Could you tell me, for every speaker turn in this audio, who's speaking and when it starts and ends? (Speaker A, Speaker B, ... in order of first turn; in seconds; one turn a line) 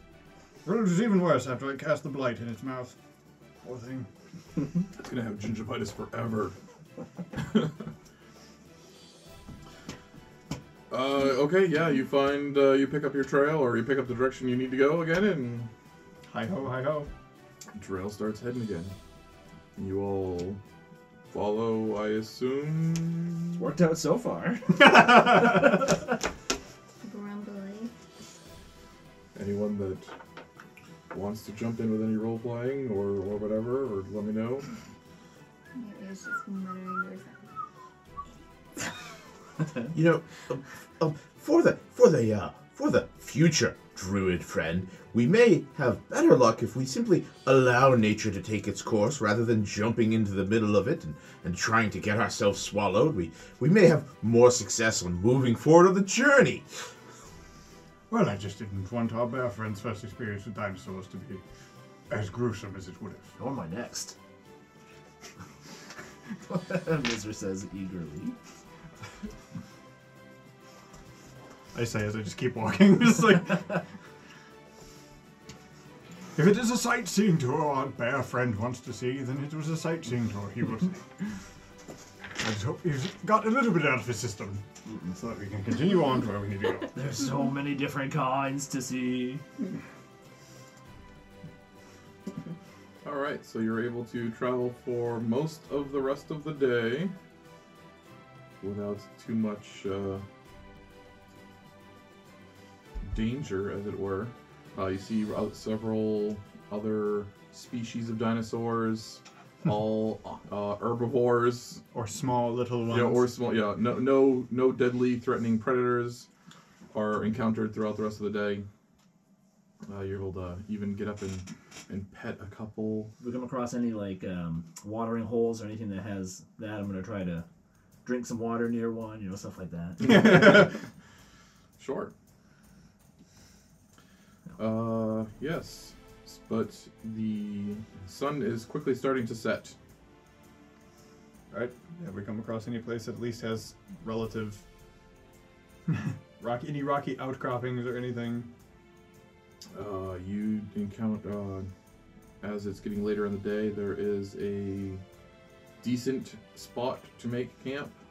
Speaker A: 0.7-3.0
Speaker A: 3.6-4.1
Speaker B: 4.9-6.5
Speaker B: 7.4-7.7
Speaker B: 10.9-15.7
Speaker A: 16.3-17.1
Speaker B: 17.8-18.9
Speaker B: 19.8-20.6
Speaker B: 21.3-23.6
Speaker C: 23.6-25.8
Speaker D: 27.0-27.9
Speaker B: 29.4-30.1
Speaker B: 31.1-34.7
Speaker D: 35.8-37.3
Speaker E: 39.9-56.7
Speaker A: 58.1-61.4
Speaker A: 62.1-63.3
Speaker C: 63.4-64.2
Speaker C: 66.5-68.4
Speaker A: 71.7-73.8
Speaker A: 76.3-81.4
Speaker A: 82.4-86.9
Speaker C: 86.9-89.4
Speaker B: 93.0-97.1
Speaker B: 98.6-100.2
Speaker B: 103.0-111.8
Speaker A: 111.9-113.3
Speaker B: 112.9-116.3
Speaker B: 116.9-118.7
Speaker B: 119.8-123.1
Speaker C: 123.2-127.5
Speaker C: 128.1-130.7
Speaker A: 130.0-130.7
Speaker B: 130.0-130.7
Speaker B: 131.8-132.1
Speaker B: 134.6-139.8
Speaker A: 141.5-144.6
Speaker A: 145.9-148.5
Speaker B: 149.7-151.7
Speaker B: 152.4-155.0
Speaker B: 155.8-157.9